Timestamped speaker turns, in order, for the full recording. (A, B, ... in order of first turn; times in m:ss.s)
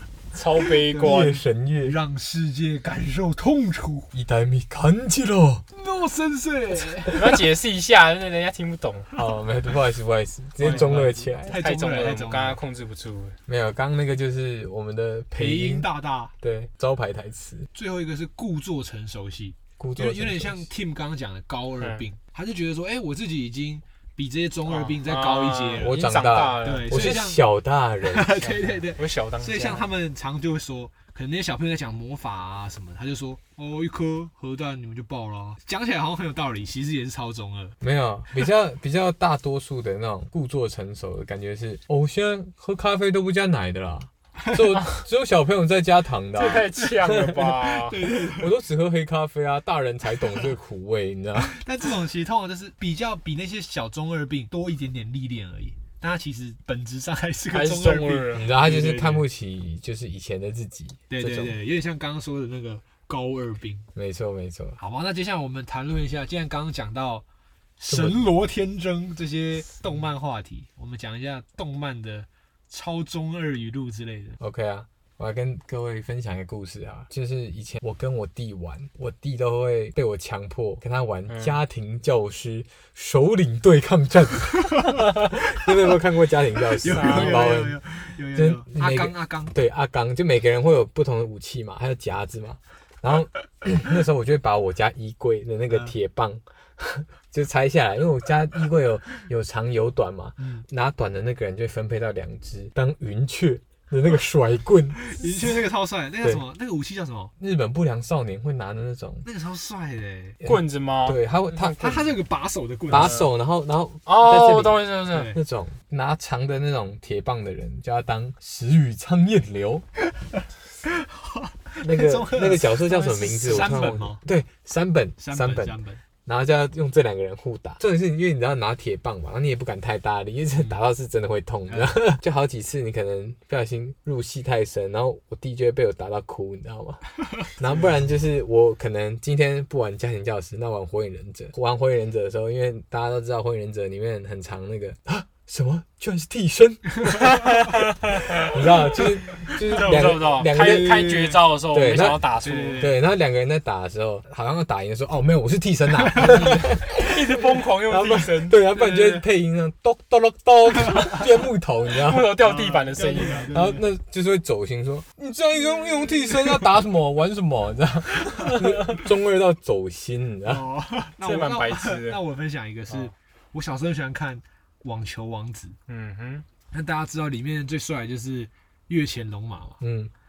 0:00.3-0:01.4 A
0:00.8-0:04.1 B
0:01.0-0:02.0 C
0:04.1-0:05.6 C
0:05.7-0:07.2 B
0:07.0-0:09.1 A
0:09.1-0:11.6 C
0:10.6-0:12.6 B
0:10.6-0:13.4 A
0:13.5-0:17.7 C
0:15.3-0:16.3 B
0:17.7-0:26.0 B
0:19.8-0:20.7 C
0:21.8-0:22.0 A
0:24.7-0:27.2 A
0:25.8-0:28.5 C
0:26.6-0:27.4 B
0:28.0-0:37.8 B
0:28.4-0:29.9 A
0:37.8-0:47.5 C
0:46.3-0:48.1 A
0:46.8-0:48.5 B
0:48.1-0:51.6 C
0:51.4-0:59.2 B
0:57.5-0:59.2 A
0:58.3-1:01.6 C
1:01.1-1:03.9 B
1:03.9-1:04.8 C
1:04.8-1:07.2 B
1:07.8-1:14.4 B
1:07.8-1:08.2 C
1:14.4-1:27.8 C
1:21.3-1:21.6 A
1:24.6-1:25.9 B
1:26.7-1:29.6 B
1:26.8-1:27.5 A
1:28.3-1:45.4 C
1:35.7-1:35.9 B
1:40.4-1:40.6 B
1:45.0-1:47.3 B
1:47.4-1:49.2 C
1:49.2-1:50.4 B
1:50.4-1:51.2 A
1:50.4-1:52.1 C
1:51.5-1:53.2 B
1:52.9-1:59.8 C
1:52.9-1:53.3 A
1:54.0-1:55.3 A
1:55.1-1:55.4 B
2:00.4-2:04.2 B
2:01.8-2:27.6 C
2:05.2-2:06.0 B
2:11.7-2:12.1 B
2:27.0-2:32.9 A
2:28.3-2:42.4 C
2:29.7-2:33.0 B
2:36.1-2:38.7 A
2:36.2-2:36.5 B
2:38.7-2:39.2 B
2:40.8-2:41.2 B
2:41.9-2:43.5 A
2:42.4-2:43.8 B
2:43.5-2:50.6 C
2:48.4-2:49.0 A
2:50.4-2:55.8 B
2:51.2-2:52.2 A
2:55.9-2:56.4 A
2:56.7-2:59.8 B
2:59.8-3:00.1 C